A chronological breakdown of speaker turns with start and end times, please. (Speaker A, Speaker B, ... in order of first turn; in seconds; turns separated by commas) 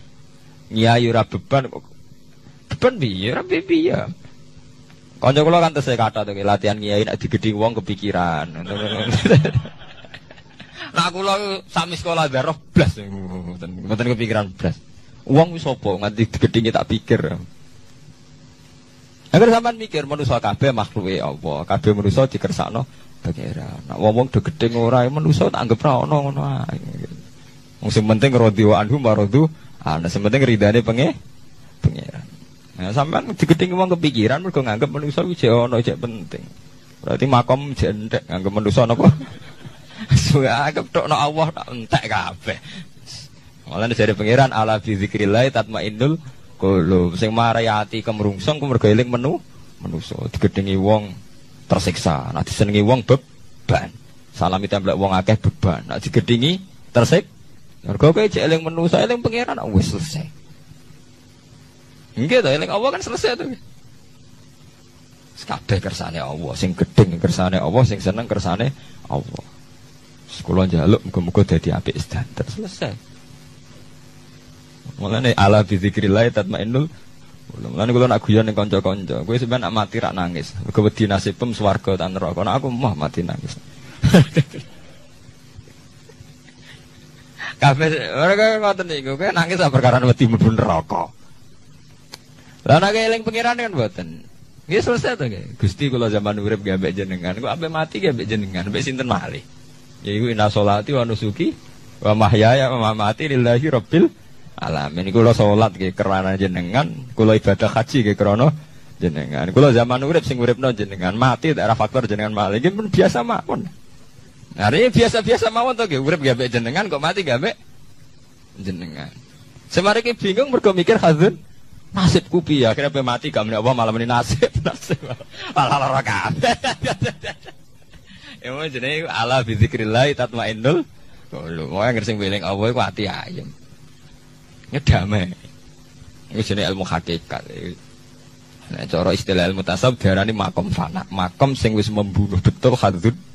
Speaker A: 0.7-1.8, Speaker A: 2.7-4.1, Speaker A: 5.2-9.7, Speaker A: 10.9-17.4, Speaker A: 19.3-27.2, Speaker A: 27.8-31.1, Speaker A: 31.8-36.5, Speaker A: 37.0-39.3, Speaker A: 40.1-42.8, Speaker A: 43.7-51.1, Speaker A: 51.7-57.3, Speaker A: 57.9-60.3, Speaker A: 62.2-63.6, Speaker A: 65.4-69.5, Speaker A: 70.3-73.0, Speaker A: 75.0-76.9, Speaker A: 77.5-84.7, Speaker A: 87.6-91.1, Speaker A: 92.7-99.5, Speaker A: 100.0-113.7, Speaker A: 114.6-117.5, Speaker A: 118.6-119.1, Speaker A: 119.7-121.4, Speaker A: 121.9-127.5, Speaker A: 128.4-133.5, Speaker A: 134.7-135.4, Speaker A: 136.3-137.8, Speaker A: 138.7-143.2